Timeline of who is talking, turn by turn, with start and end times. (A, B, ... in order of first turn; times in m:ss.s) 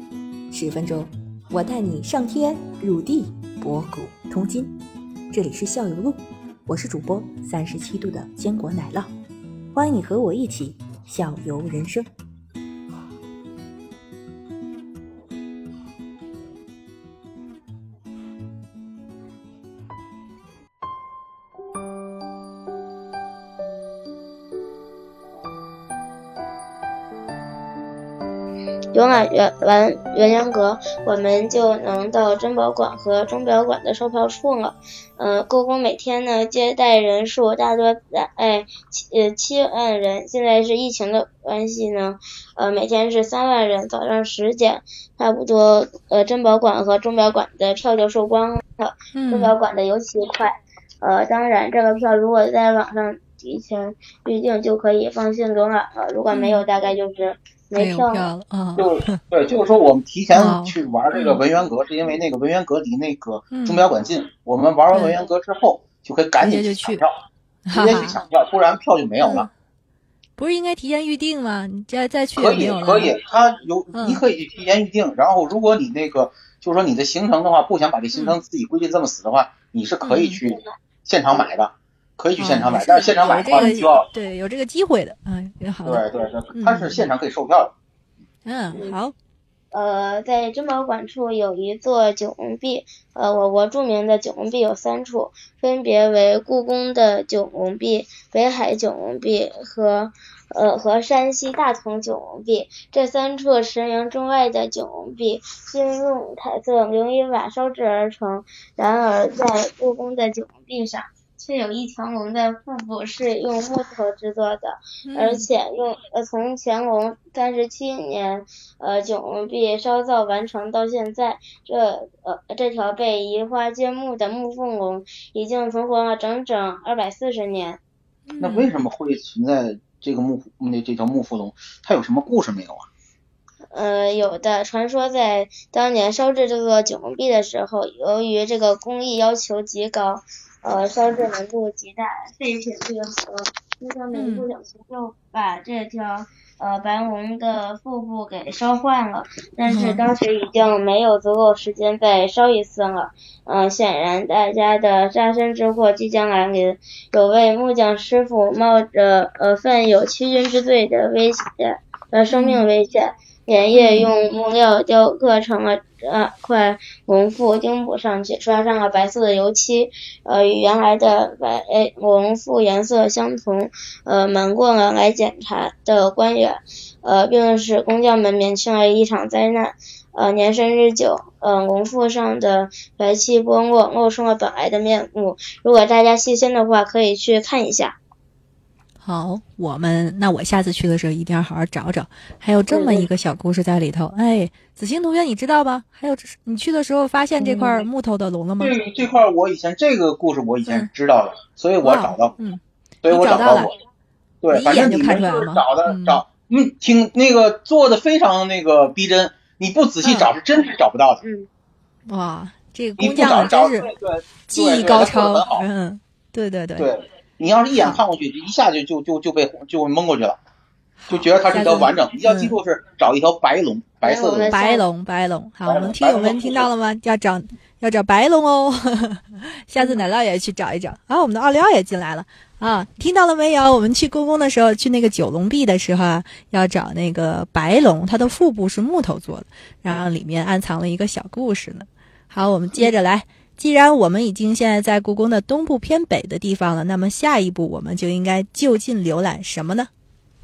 0:00.5-0:04.8 A
0:05.3-0:09.1 A
0:09.7-0:12.1 A
0:28.9-0:58.3 B
0:49.1-0:49.5 C
0:56.3-0:56.6 C
0:57.7-0:59.1 C
0:58.8-1:07.2 D
1:00.3-1:01.4 C
1:03.5-1:03.8 C
1:04.9-1:05.2 C
1:06.4-1:07.0 C
1:07.6-1:08.2 C
1:07.7-1:09.5 D
1:09.2-1:09.5 C
1:10.4-1:13.1 C
1:12.4-1:24.1 D
1:13.9-1:14.2 C
1:20.0-1:20.4 C
1:22.4-1:26.0 C
1:25.8-1:27.7 D
1:26.5-1:27.0 C
1:28.4-1:29.1 C
1:29.7-2:07.8 B
1:55.0-1:55.5 C
2:08.3-2:08.7 C
2:08.4-2:12.9 D
2:13.7-3:08.0 B
2:24.1-2:24.4 C
2:29.7-2:30.0 C
2:42.3-2:42.6 C
2:43.7-2:44.1 C
3:09.0-3:18.8 C
3:12.7-3:13.0 B
3:17.4-3:17.8 B
3:18.6-3:22.4 D
3:21.8-3:23.7 C
3:23.0-3:23.7 D
3:24.4-3:31.2 D
3:24.5-3:26.2 C
3:30.0-3:30.3 C
3:31.2-3:31.5 B
3:32.1-3:33.9 C
3:33.0-3:35.6 D
3:34.5-3:36.9 C
3:36.8-3:40.4 D
3:41.0-3:42.6 C
3:41.1-3:44.5 D
3:44.0-3:44.8 B
3:44.5-4:09.9 C
3:45.6-3:46.7 D